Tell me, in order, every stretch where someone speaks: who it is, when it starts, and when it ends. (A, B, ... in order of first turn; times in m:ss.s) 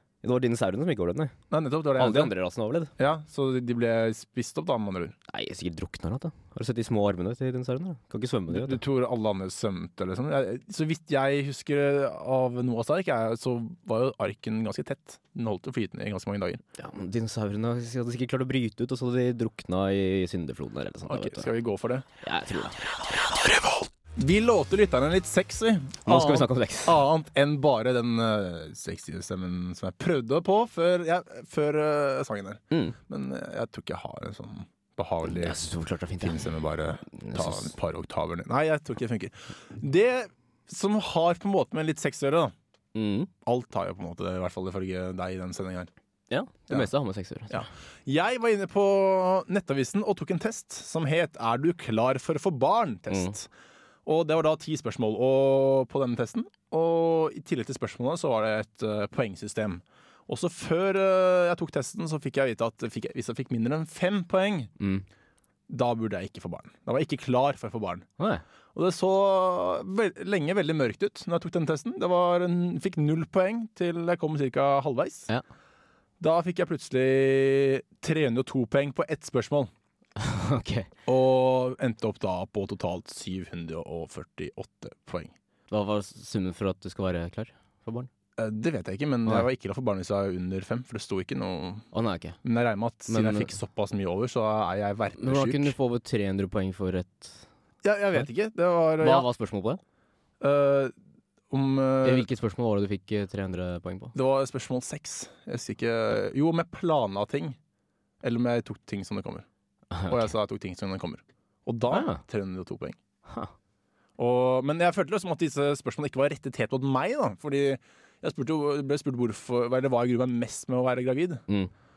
0:00.2-0:01.3 A
0:01.5-0:02.3 B
0:02.0-0:02.9 A
0:03.0-0:05.1 B
0:05.3-0:08.8 A
0:08.5-0:16.6 B
0:16.8-0:21.5 A
0:21.1-0:22.0 B
0:22.2-0:23.3 A
0:23.4-0:35.6 B
0:26.0-0:27.0 A
0:32.7-0:33.0 A
0:35.2-0:36.4 A
0:36.2-0:42.5 B
0:37.1-0:37.7 A
0:42.9-0:43.3 A
0:43.4-0:45.9 B
0:46.3-0:47.7 A
0:47.5-0:53.5 B
0:53.1-0:53.3 A
0:54.0-1:04.7 B
1:04.8-1:05.0 A
1:05.7-1:08.0 B
1:08.2-1:08.4 A
1:08.7-1:15.3 B
1:16.2-1:19.7 B
1:20.2-1:20.9 A
1:21.0-1:25.3 B
1:25.7-1:28.1 A
1:28.4-1:31.8 B
1:31.9-1:32.4 A
1:32.4-1:35.7 B
1:33.1-1:33.5 A
1:35.2-1:37.4 A
1:37.8-1:39.3 B
1:39.0-1:39.8 A
1:40.4-1:40.9 B
1:41.5-1:42.3 B
1:42.0-1:44.1 A
1:44.1-1:47.6 B
1:48.2-1:49.4 B
1:49.9-1:50.3 A
1:50.1-1:53.0 B
1:51.9-1:52.2 A
1:53.3-1:53.5 A
1:54.2-2:01.4 B